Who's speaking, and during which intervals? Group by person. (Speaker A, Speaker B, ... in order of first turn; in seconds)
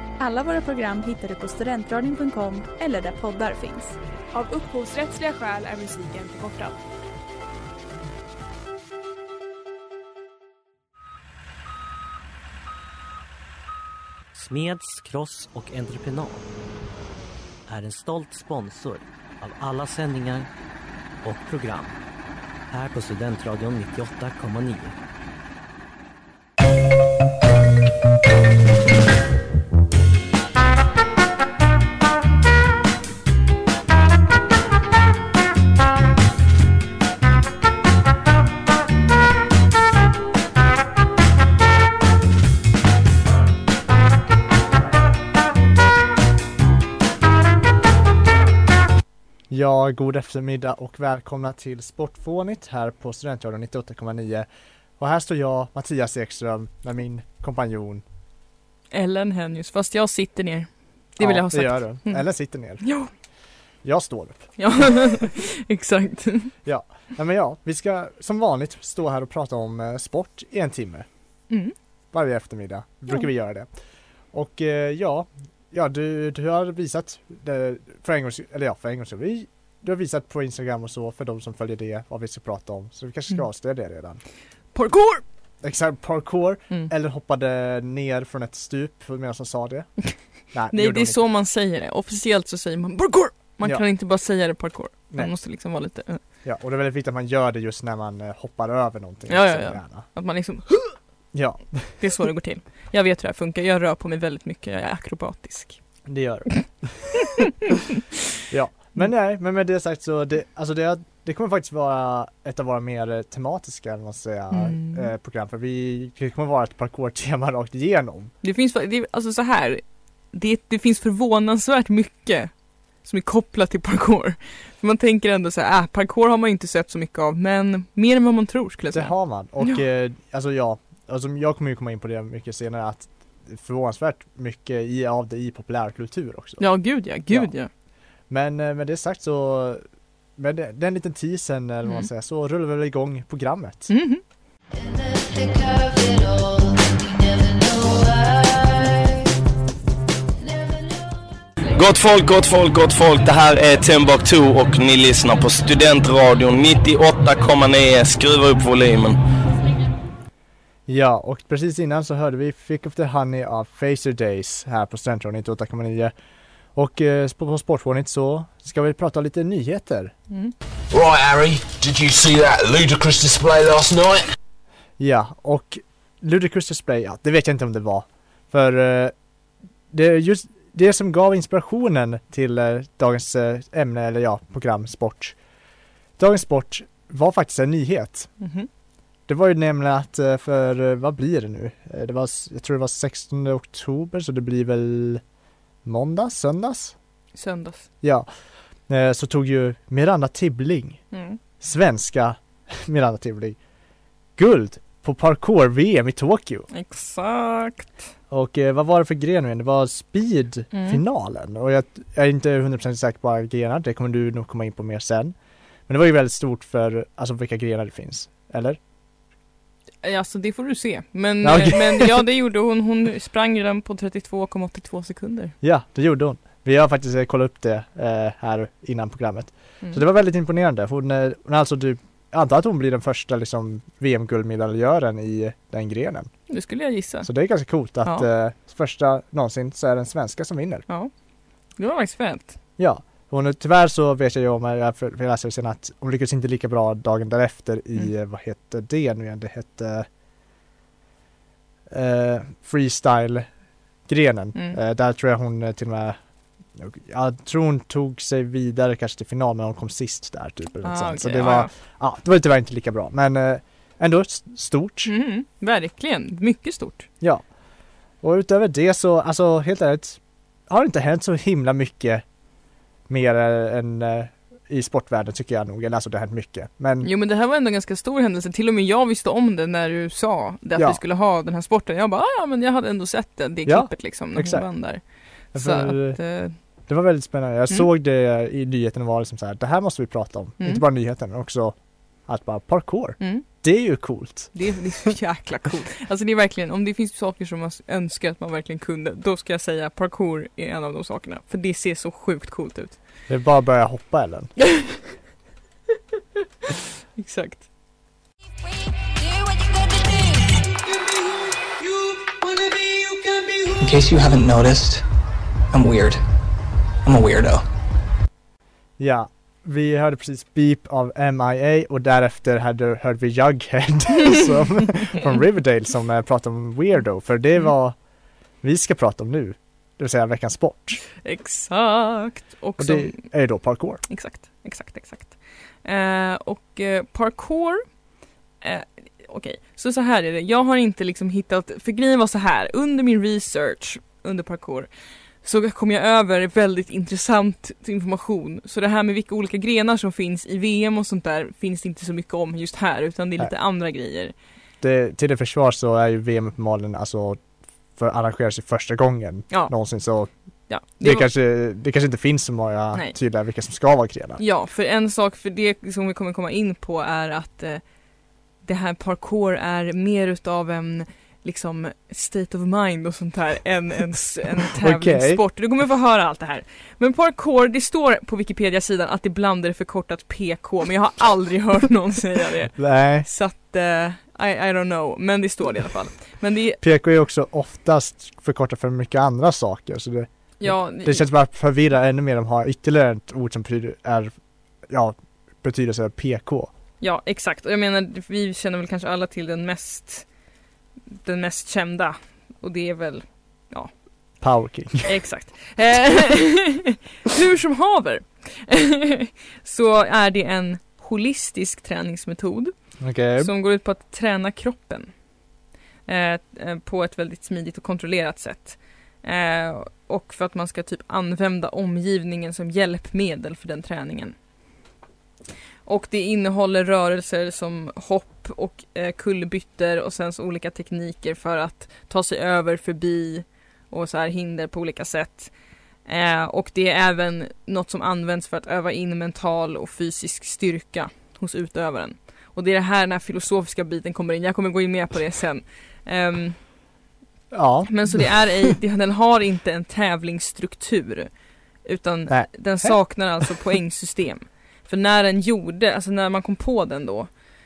Speaker A: 0.2-4.0
Speaker B: 4.3-6.8
Speaker C: 14.3-16.5, 17.7-20.5, 21.2-22.0, 22.7-24.9
Speaker D: 49.5-54.5, 55.0-58.0, 61.2-62.9, 63.8-65.1, 66.6-71.1, 72.1-73.7, 74.3-84.2, 85.6-91.2, 96.4-100.1, 101.3-102.0, 106.0-107.2, 108.5-118.3, 128.9-137.5, 138.3-139.8, 140.3-143.9, 160.9-166.1, 166.7-170.1, 175.0-179.1, 179.9-185.4, 186.2-188.3, 189.3-195.2, 195.8-196.9, 198.0-201.0, 201.6-203.6, 204.3-206.7, 208.3-215.3, 215.9-218.8, 221.4-222.1, 225.6-236.5, 237.2-240.8, 242.8-250.1, 251.9-253.5, 254.0-256.2, 256.7-265.1, 267.2-267.5, 268.2-272.2, 273.1-277.1, 280.7-281.0, 283.6-295.0, 303.3-304.5, 319.0-328.0, 328.6-331.0, 332.8-334.0, 354.8-357.4, 357.9-364.4, 374.8-375.4, 382.8-383.3, 386.8-394.3, 394.9-396.7, 404.4-405.2, 413.0-413.5, 447.5-448.5, 452.3-453.5
Speaker E: 58.9-63.1, 64.6-66.5, 84.7-85.2, 90.7-96.2, 99.3-101.0, 102.0-106.0, 114.5-115.1, 118.4-129.8, 136.6-137.7, 141.8-142.1, 143.9-144.2, 188.4-188.7, 197.3-197.9, 201.1-201.4, 206.7-208.0, 210.7-211.0, 220.0-225.5, 236.5-237.3, 241.7-242.6, 260.8-261.7, 265.1-267.1, 277.0-286.6, 293.2-293.4, 294.5-303.0, 307.2-307.6, 331.2-333.2, 334.0-338.0, 338.6-344.9, 345.4-354.3, 360.7-361.3, 364.4-368.0, 368.6-386.8, 390.6-391.3, 397.0-400.3, 401.2-403.9, 405.0-415.3, 416.1-424.4, 425.8-446.6, 447.9-457.4
Speaker F: 151.7-159.2
Speaker G: 170.9-174.2
Speaker H: 313.8-315.0, 315.7-316.2, 317.0-317.6